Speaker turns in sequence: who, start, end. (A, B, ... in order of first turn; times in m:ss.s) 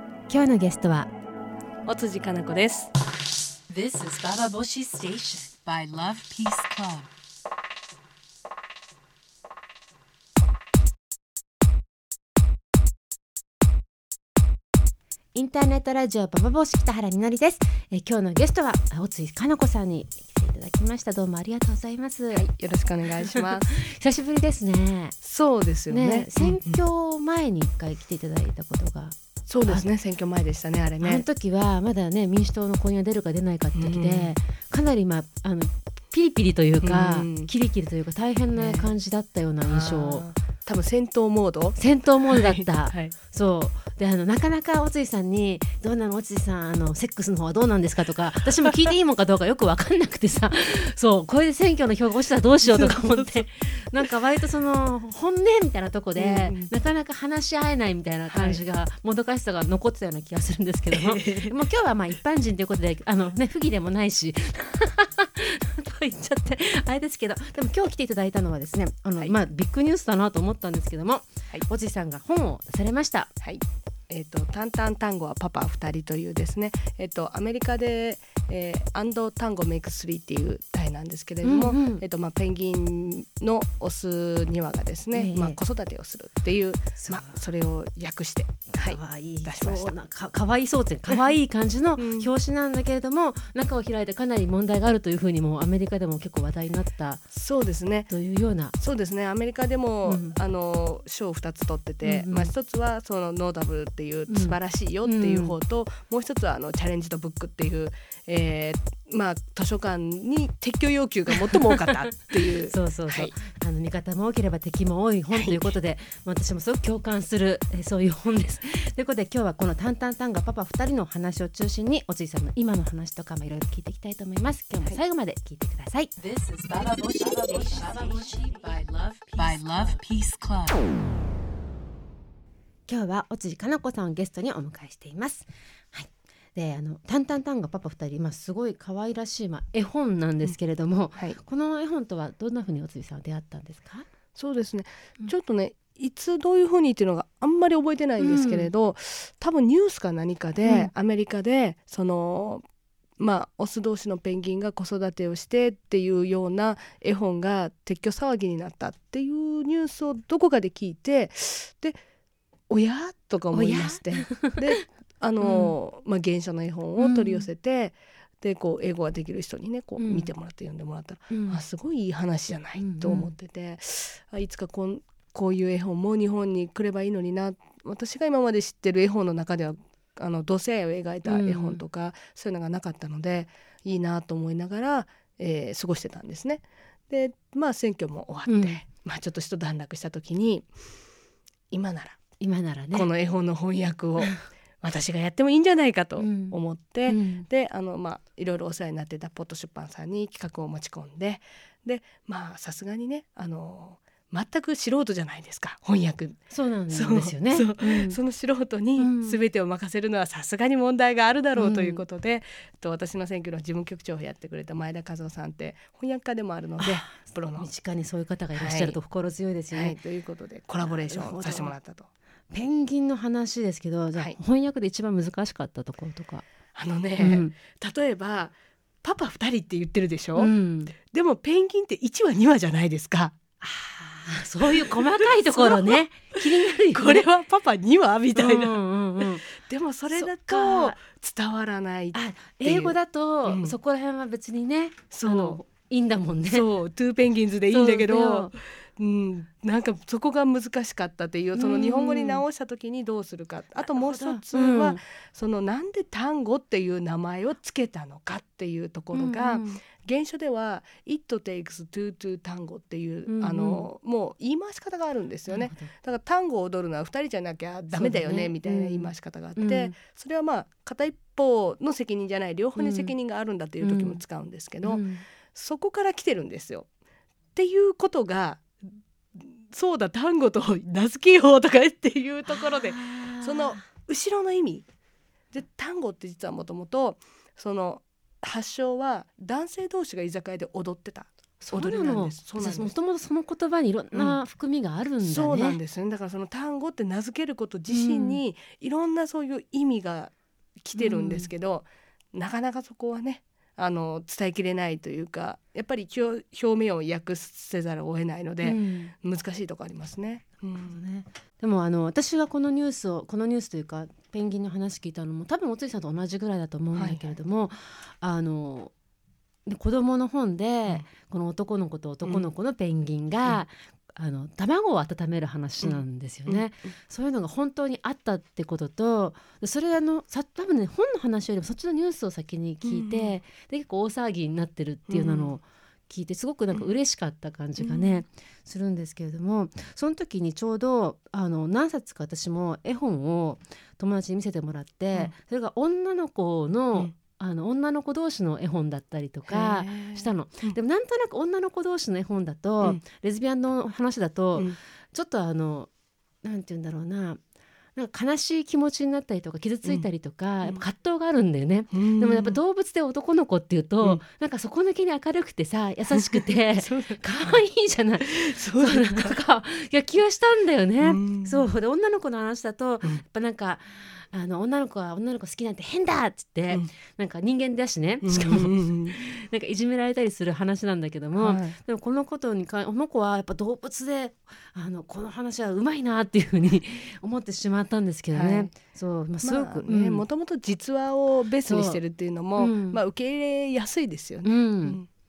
0:00.3-0:01.1 A
0:01.9-0:02.9 B
0:03.7-0:07.1 C
0:15.3-0:22.4 A
0:22.3-0:23.7 B
0:23.4-0:25.2 A
0:25.2-0:26.8 B
0:25.9-0:29.9 A
0:29.5-0:31.2 B
0:31.0-0:40.3 A
0:33.8-0:34.4 B
0:36.8-0:37.5 B
0:38.5-0:38.9 B
0:39.6-0:43.1 B
0:41.8-1:13.3 A
0:52.6-0:53.5 B
0:56.2-0:56.7 B
0:58.3-0:58.6 B
1:00.9-1:01.5 B
1:13.4-1:30.0 B
1:21.4-1:22.0 A
1:25.1-1:25.6 A
1:27.0-1:27.4 A
1:28.8-1:37.2 A
1:32.0-1:32.3 B
1:37.3-1:38.1 B
1:38.1-1:38.8 A
1:38.8-1:53.3 B
1:40.1-1:40.4 A
1:42.0-1:42.5 A
1:44.3-1:45.6 A
1:51.7-1:51.9 A
1:52.5-2:06.1 A
1:55.3-1:55.7 B
2:06.2-2:11.0 C
2:12.9-2:24.1 A
2:24.4-2:32.6 B
2:28.2-2:28.7 A
2:30.6-2:30.9 A
2:33.2-2:42.0 B
2:42.7-3:10.7 B
2:43.5-2:44.8 A
2:45.4-2:45.8 A
2:47.0-2:47.5 A
2:50.0-2:50.3 A
2:51.3-2:51.6 A
2:52.8-2:53.3 A
3:01.3-3:01.8 A
3:08.5-3:08.8 A
3:11.7-3:12.2 B
3:12.4-3:13.1 A
3:12.9-3:37.7 B
3:14.2-3:14.4 A
3:16.2-3:17.5 A
3:26.5-3:28.2 A
3:29.0-3:29.4 A
3:31.6-3:32.0 A
3:36.8-3:40.0 A
3:38.6-3:39.0 B
3:39.7-3:42.1 B
3:40.9-3:41.8 A
3:42.5-3:46.4 A
3:46.8-3:53.4 B
3:47.2-3:47.5 A
3:50.4-3:50.9 A
3:53.6-3:57.3 A
3:54.7-3:56.0 B
3:56.9-4:03.8 B
3:58.4-3:59.5 A
4:00.1-4:01.0 A
4:02.1-4:06.7 A
4:05.1-4:05.6 B
4:06.5-4:36.9 B
4:07.7-4:08.5 A
4:11.6-4:12.4 A
4:13.8-4:15.0 A
4:19.1-4:19.8 A
4:23.3-4:23.9 A
4:25.5-4:25.9 A
4:27.9-4:30.0 A
4:32.8-4:33.1 A
4:33.8-4:34.2 A
4:34.8-4:35.2 A
4:37.6-4:38.7 B
4:39.4-4:44.9 B
4:42.5-4:43.9 A
4:45.5-4:53.0 B
4:51.6-4:55.8 A
4:54.1-4:54.4 B
4:55.2-5:11.0 B
4:57.9-4:58.4 A
5:01.0-5:01.5 A
5:08.6-5:09.1 A
5:10.8-5:18.9 A
5:17.0-5:17.4 B
5:19.7-5:55.9 A
5:22.2-5:22.5 B
5:25.8-5:26.7 B
5:32.8-5:33.4 B
5:35.1-5:35.6 B
5:37.8-5:38.2 B
5:49.5-5:50.8 B
5:56.4-5:57.4 A
5:58.0-6:30.2 A
6:01.9-6:02.6 B
6:06.1-6:07.6 B
6:08.3-6:09.4 B
6:11.0-6:11.7 B
6:18.2-6:19.2 B
6:21.4-6:21.8 B
6:28.3-6:28.7 B
6:29.4-6:35.1 B
6:31.6-6:32.0 A
6:32.6-6:33.0 A
6:34.4-6:35.0 A